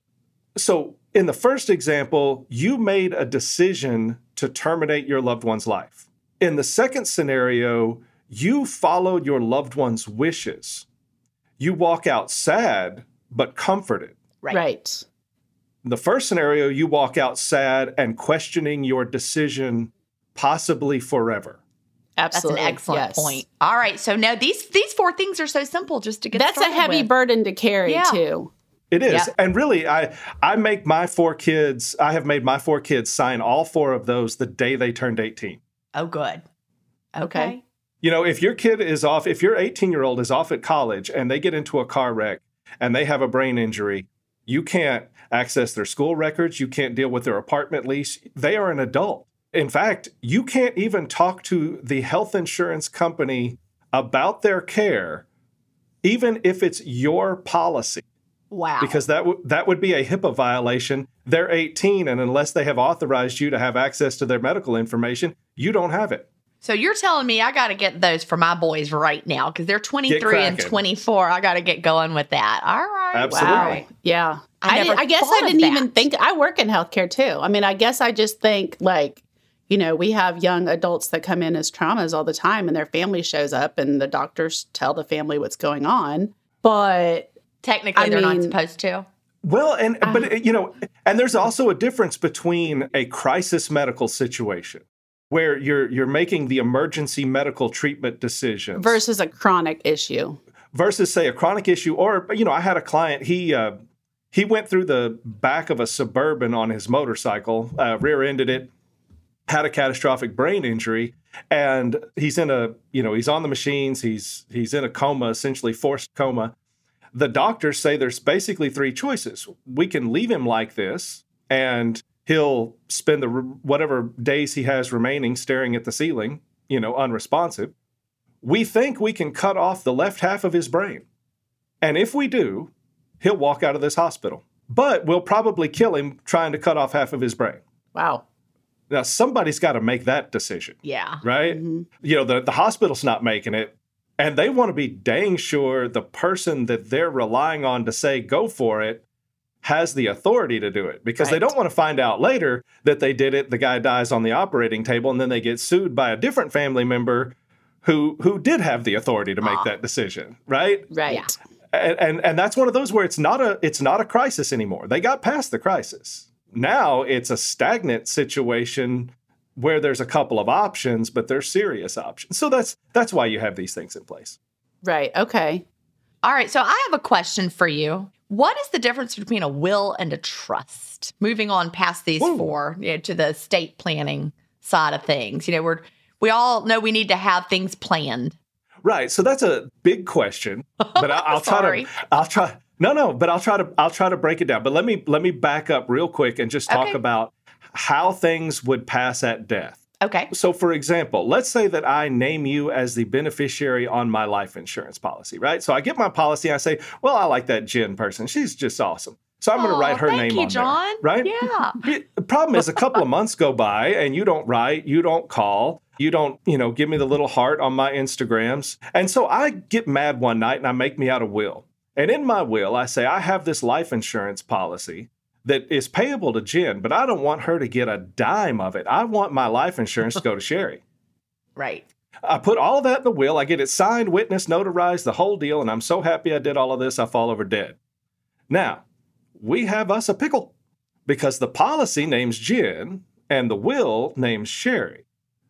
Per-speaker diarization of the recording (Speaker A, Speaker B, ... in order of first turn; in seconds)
Speaker A: 0.5-10.8, 11.6-14.2, 15.8-21.6, 28.9-35.6, 38.0-55.2, 56.0-58.0, 58.8-66.3, 70.1-70.8, 73.1-73.8, 89.4-99.0, 100.7-103.7, 104.3-108.7, 109.5-116.5, 117.1-127.7, 128.4-131.0, 131.8-137.6, 138.9-149.0, 149.6-161.0, 161.7-174.4, 182.2-182.5, 188.8-199.8, 200.3-230.8, 232.2-237.8, 238.5-238.8, 239.4-240.5, 241.1-245.0
Speaker B: 14.5-15.0, 22.2-23.4, 26.3-28.5, 37.2-37.5, 73.3-87.3, 88.0-88.5, 98.8-100.4, 137.9-138.2, 141.5-141.9, 160.9-161.3, 174.8-175.6
Speaker C: 22.3-27.1, 27.9-28.2, 35.9-36.4, 37.1-37.6, 58.5-59.0, 66.6-73.8, 74.6-76.0, 87.6-89.0, 140.8-141.2, 159.4-159.7, 176.2-188.3, 190.9-192.0, 196.7-197.0, 200.0-200.3, 209.6-211.8, 231.6-231.8